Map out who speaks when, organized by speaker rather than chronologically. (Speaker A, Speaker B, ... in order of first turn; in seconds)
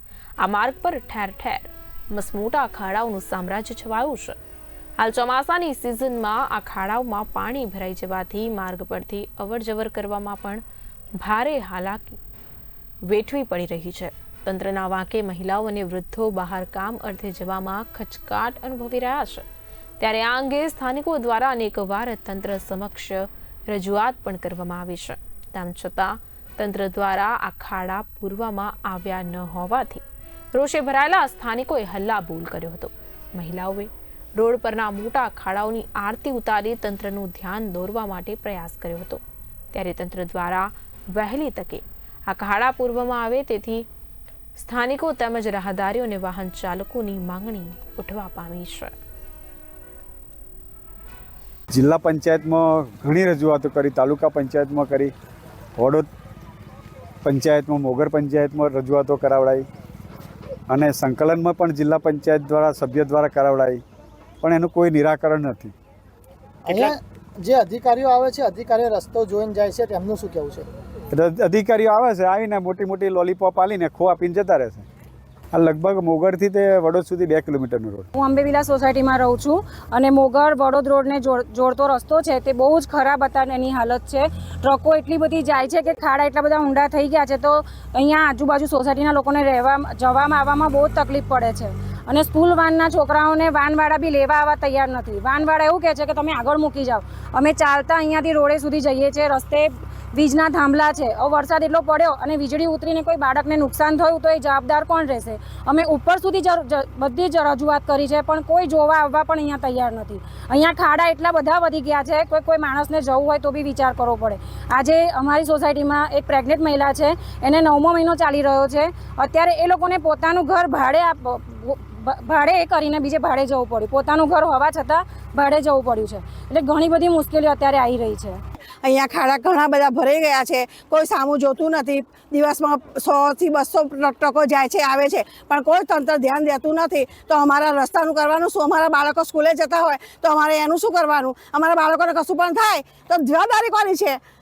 Speaker A: 0.4-4.4, 5.0-10.6, 11.2-12.2, 13.1-19.4, 20.0-39.2, 39.7-43.9, 44.5-48.9
Speaker B: 51.7-55.1, 55.8-56.1, 57.2-59.6, 60.7-63.8, 64.4-65.7, 71.1-74.8, 75.5-78.1
Speaker C: 66.6-70.7
Speaker D: 78.1-128.4
Speaker E: 128.8-144.2